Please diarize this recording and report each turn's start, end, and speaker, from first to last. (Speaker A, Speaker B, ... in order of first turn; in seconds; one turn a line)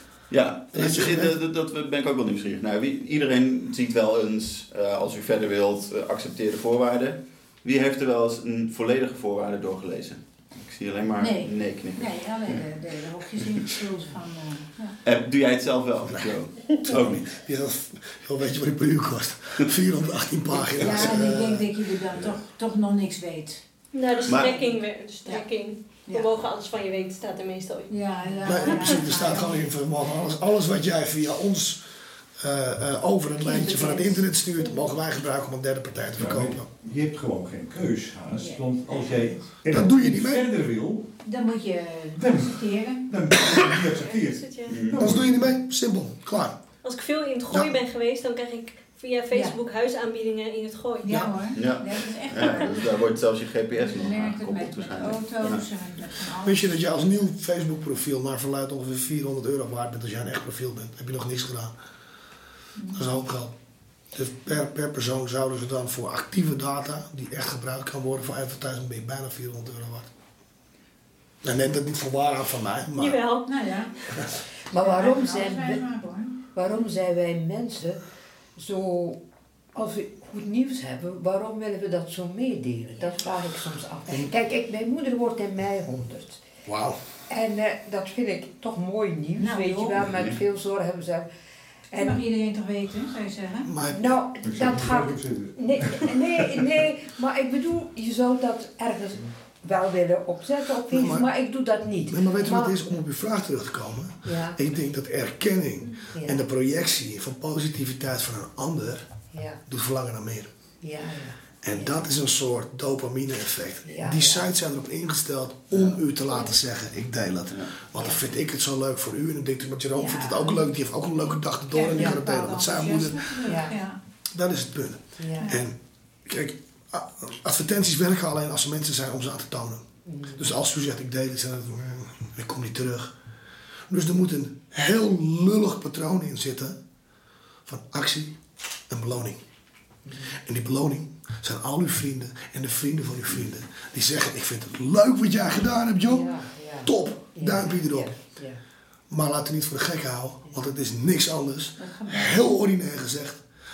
Speaker A: 0.3-12.1
Speaker B: 0.7-1.4
Speaker C: 11.2-15.0
Speaker A: 15.0-17.2
Speaker B: 16.1-21.7
Speaker C: 20.8-23.6
Speaker D: 23.9-29.3
Speaker A: 24.3-24.6
Speaker C: 24.3-26.3
Speaker C: 27.9-29.6
Speaker B: 28.4-31.8
Speaker B: 32.4-36.7
Speaker C: 33.5-34.3
Speaker E: 36.2-41.1
Speaker C: 38.3-39.5
Speaker B: 39.7-40.5
Speaker C: 41.2-43.0
Speaker E: 42.1-45.5
Speaker D: 43.9-44.9
Speaker A: 44.7-45.0
Speaker B: 45.0-46.6
Speaker D: 46.8-51.1
Speaker B: 47.5-47.7
Speaker C: 51.0-53.0
Speaker B: 51.1-51.4
Speaker A: 51.5-55.6
Speaker C: 53.8-56.8
Speaker B: 56.4-61.8
Speaker C: 62.8-63.0
Speaker B: 62.9-63.5
Speaker B: 64.1-70.1
Speaker B: 71.4-73.2
Speaker D: 73.0-74.2
Speaker C: 73.5-73.9
Speaker F: 74.7-75.8
Speaker C: 74.8-76.4
Speaker F: 76.5-78.0
Speaker F: 78.6-79.2
Speaker F: 79.8-86.4
Speaker B: 86.7-87.0
Speaker F: 87.3-91.3
Speaker C: 89.4-90.1
Speaker A: 90.1-90.4
Speaker F: 91.9-92.2
Speaker C: 92.0-93.7
Speaker B: 93.6-94.1
Speaker F: 93.9-102.8
Speaker E: 94.4-96.8
Speaker B: 100.9-101.3
Speaker B: 102.1-109.1
Speaker F: 104.2-104.6
Speaker F: 106.1-106.4
Speaker F: 109.3-109.6
Speaker B: 109.7-110.5
Speaker F: 110.8-112.1
Speaker B: 111.6-123.5
Speaker F: 113.9-114.5
Speaker A: 115.7-116.0
Speaker C: 120.0-120.7
Speaker C: 121.7-124.0
Speaker F: 121.9-122.2
Speaker F: 123.5-123.8
Speaker B: 124.3-133.1
Speaker F: 125.2-125.5
Speaker C: 125.4-125.7
Speaker F: 130.1-130.5
Speaker B: 133.9-136.8
Speaker B: 137.7-138.4
Speaker B: 138.9-139.4
Speaker F: 140.1-140.3
Speaker B: 140.3-148.1
Speaker F: 146.1-148.6
Speaker B: 149.1-153.4
Speaker C: 151.8-152.4